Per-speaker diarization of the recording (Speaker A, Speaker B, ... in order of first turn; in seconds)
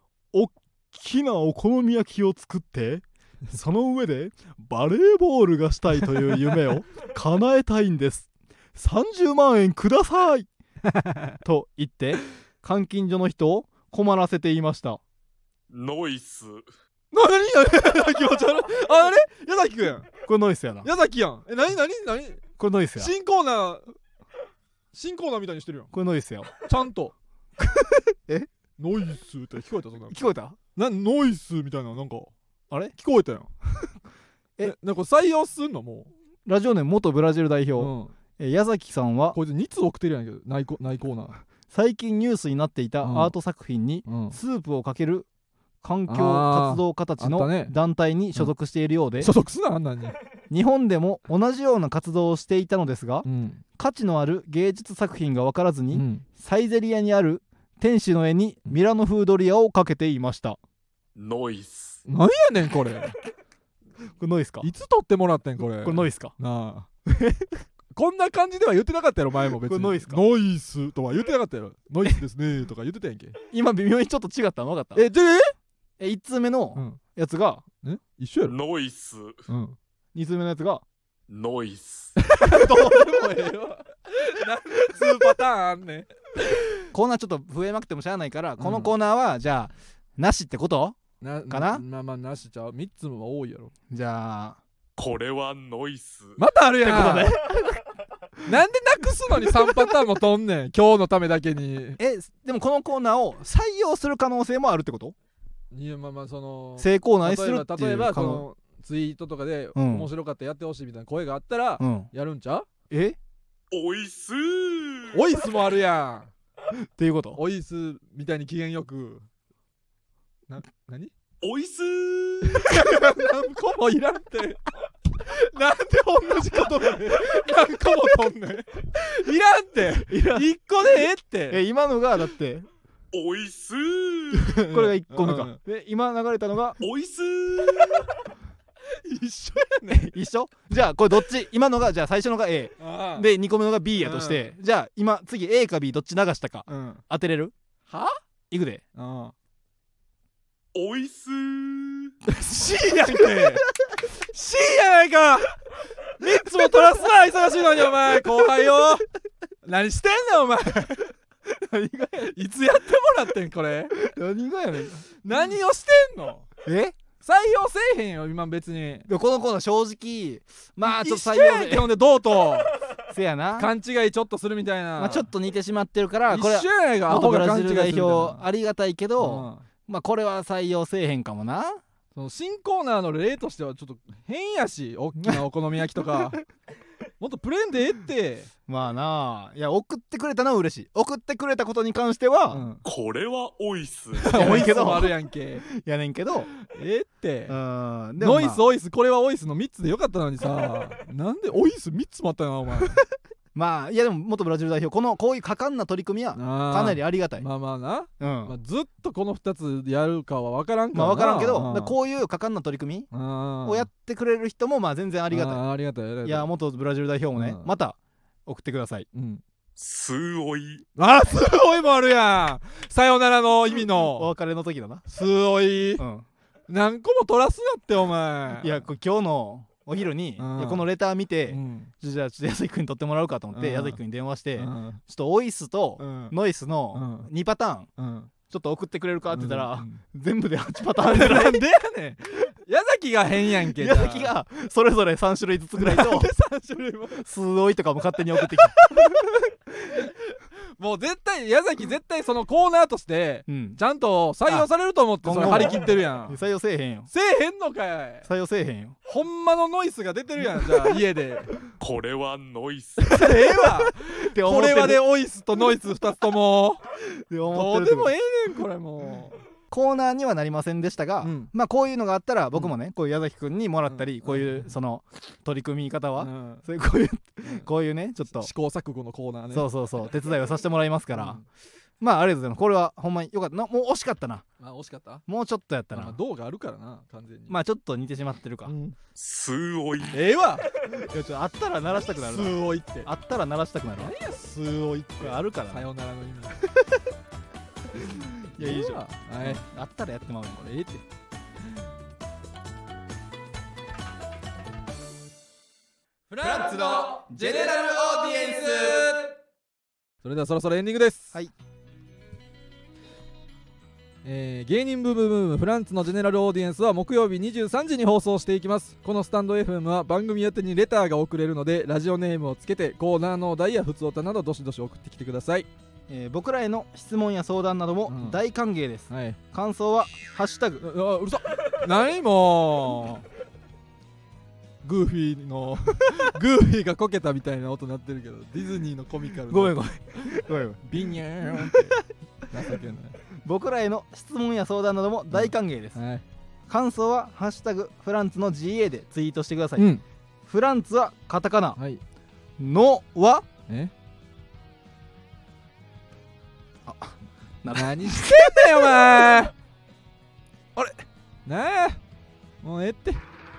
Speaker A: 0.3-10.5, 11.4-15.0, 20.3-20.9, 22.6-23.1, 25.9-26.5, 27.6-28.5, 30.1-30.6, 36.5-39.4, 41.7-45.3, 45.8-49.3, 50.5-53.3, 53.8-60.6, 64.2-64.7, 65.8-66.3, 67.1-67.5, 69.7-70.2, 73.5-75.0, 76.0-77.6, 80.2-80.8, 82.5-83.2, 86.9-91.0, 91.5-91.8, 93.9-94.6, 96.8-97.8, 102.0-105.2, 106.8-108.5, 109.8-110.1, 111.8-112.1, 112.9-113.2, 117.0-117.4, 130.0-130.5, 131.5-132.7, 134.6-136.8, 139.9-147.5, 148.5-148.8, 161.5-162.3, 163.9-165.1, 166.7-167.0, 169.1-171.9, 173.1-173.7, 175.0-181.8, 188.7-192.8, 194.3-196.5, 197.5-198.6, 203.6-207.5, 208.2-208.6, 210.9-213.1, 213.6-215.6, 216.2-219.1, 223.9-225.1, 226.0-226.3, 228.6-237.9, 238.5-241.6, 243.7-246.3, 247.1-249.0, 253.5-253.8, 254.4-254.7, 255.2-257.1, 258.2-259.0, 260.5-260.9, 263.1-265.0, 267.2-268.1, 269.7-278.5, 279.5-281.4, 282.0-284.4, 285.3-286.2, 287.5-288.8, 290.9-294.1, 295.2-295.9, 298.1-300.7, 306.4-307.2, 326.1-330.9, 339.5-340.8, 341.6-341.9, 343.4-346.0, 346.7-349.9, 350.5-351.8, 352.6-353.5, 356.9-359.4
Speaker B: 10.9-11.3, 17.1-20.1, 20.8-22.4, 23.0-23.9, 24.9-25.9, 26.6-27.1, 28.8-30.2, 30.8-32.3, 33.0-33.5, 34.6-36.1, 37.8-38.1, 39.3-41.4, 43.0-43.3, 44.1-44.4, 46.1-47.7, 49.2-50.2, 53.2-53.6, 55.9-56.2, 62.1-63.1, 64.6-66.9, 67.9-73.4, 75.0-75.5, 77.8-78.5, 79.5-79.8, 82.2-86.9, 88.6-88.9, 91.2-93.7, 96.4-97.4, 98.5-102.0, 105.7-112.7, 115.1-116.3, 117.3-119.3, 120.5-121.1, 122.4-124.6, 125.1-131.6, 134.3-135.6, 137.7-138.1, 138.8-140.1, 142.8-143.3, 144.0-144.5, 146.7-147.0, 147.9-148.2, 148.9-149.3, 152.3-159.1, 159.6-161.1, 162.2-163.9, 165.2-166.5, 167.2-169.1, 170.8-172.7, 173.6-175.3, 176.3-178.4, 179.2-179.7, 182.2-186.4, 187.2-188.5, 194.2-195.7, 196.6-197.6, 198.2-203.0, 206.3-212.0, 213.1-213.9, 215.3-216.5, 217.3-217.7, 219.1-219.4, 221.0-224.3, 225.1-226.0, 226.7-228.8, 230.4-230.9, 231.5-231.9, 233.5-234.0, 234.6-235.0, 236.0-236.3, 236.9-237.3, 238.0-238.3, 239.3-240.0, 241.0-244.3, 245.8-247.2, 248.4-256.4, 257.1-258.3, 259.1-261.5, 263.0-266.8, 267.5-269.4, 271.2-271.5, 273.9-274.7, 276.2-276.6, 278.4-280.1, 281.1-281.4, 284.6-285.2, 285.9-287.6, 288.7-289.0, 290.1-290.6, 292.1-293.1, 294.0-296.6, 298.1-299.6, 300.6-301.0, 306.3-309.3, 310.2-311.4, 314.2-325.7, 328.1-328.4, 329.1-329.4, 330.8-333.2, 334.8-342.0, 342.5-343.2, 345.3-346.2, 349.8-350.0, 351.8-352.0, 353.7-353.9, 357.7-359.5, 361.4-362.0, 362.6-363.2
Speaker C: 15.7-16.7, 61.2-62.0, 78.5-79.5, 81.3-82.2, 95.0-96.5, 113.7-115.3, 121.4-122.8, 133.1-134.6, 136.8-138.2, 150.7-152.1, 192.8-194.7, 219.8-220.8, 261.8-263.3, 289.2-290.2